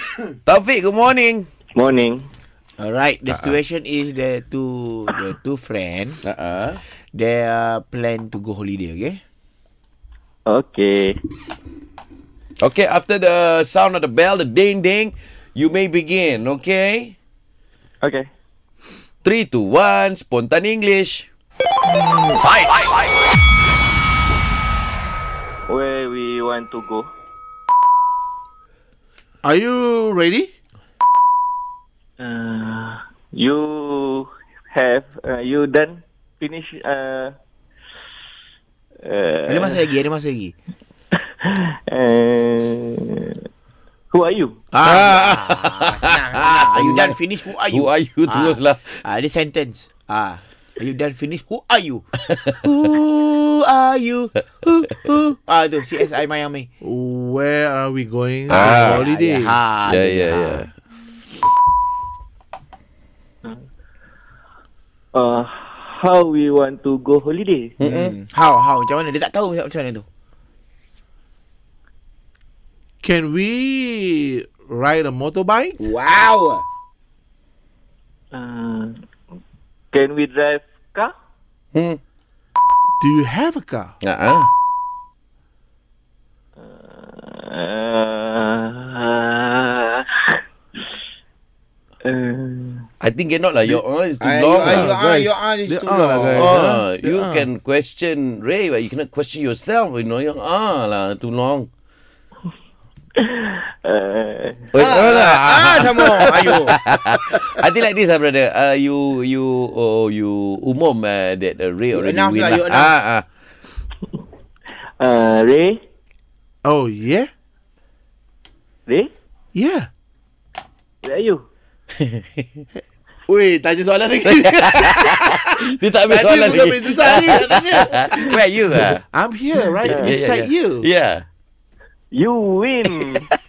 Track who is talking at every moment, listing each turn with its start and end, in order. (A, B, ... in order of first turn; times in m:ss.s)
0:00.4-0:01.5 A
0:01.7-0:02.3 B
0:02.8-0:06.2 C
0:03.3-0:03.6 A
0:06.2-0:06.8 A
0:07.1-0:09.2 C
0:10.4-0:11.2 B
0:12.6-0:17.2 A
0:18.0-0:18.3 B
0:19.2-0:21.3 A
0:21.9-0:22.4 B
0:22.4-0:22.9 A
0:25.7-0:27.1 B
0:29.4-0:30.5 D
0:32.2-0:37.3 B
0:39.0-0:39.8 B
0:39.5-0:40.5 C
0:41.4-0:43.4 B
0:44.1-0:44.6 B
0:44.7-0:56.7 C
0:44.8-0:49.0 A
0:56.8-0:59.6 D
0:58.5-0:59.0 A
0:58.5-1:00.6 C
0:59.9-1:00.7 A
1:05.1-1:07.7 B
1:07.8-1:08.1 A
1:07.8-1:10.0 C
1:13.0-1:15.9 D
1:15.8-1:16.6 C
1:18.3-1:19.0 B
1:19.9-1:21.1 B
1:21.7-1:22.0 A
1:23.0-1:23.9 D
1:24.0-1:24.5 A
1:26.6-1:30.4 B
1:32.0-1:32.8 B
1:33.0-1:35.0 A
1:34.2-1:36.8 C
1:34.6-1:37.5 D
1:36.3-1:41.7 A
1:43.2-1:44.7 B
1:44.7-1:53.2 A
1:44.8-1:46.8 C
1:51.9-1:52.9 C
1:55.0-1:55.8 B
1:56.6-1:57.3 D
1:59.5-1:59.9 D
2:01.0-2:01.4 B
2:02.0-2:02.6 A
2:03.3-2:08.2 D
2:04.2-2:09.0 A
2:09.1-2:10.9 D
2:09.8-2:10.2 B
2:09.8-2:11.2 A
2:12.1-2:13.3 B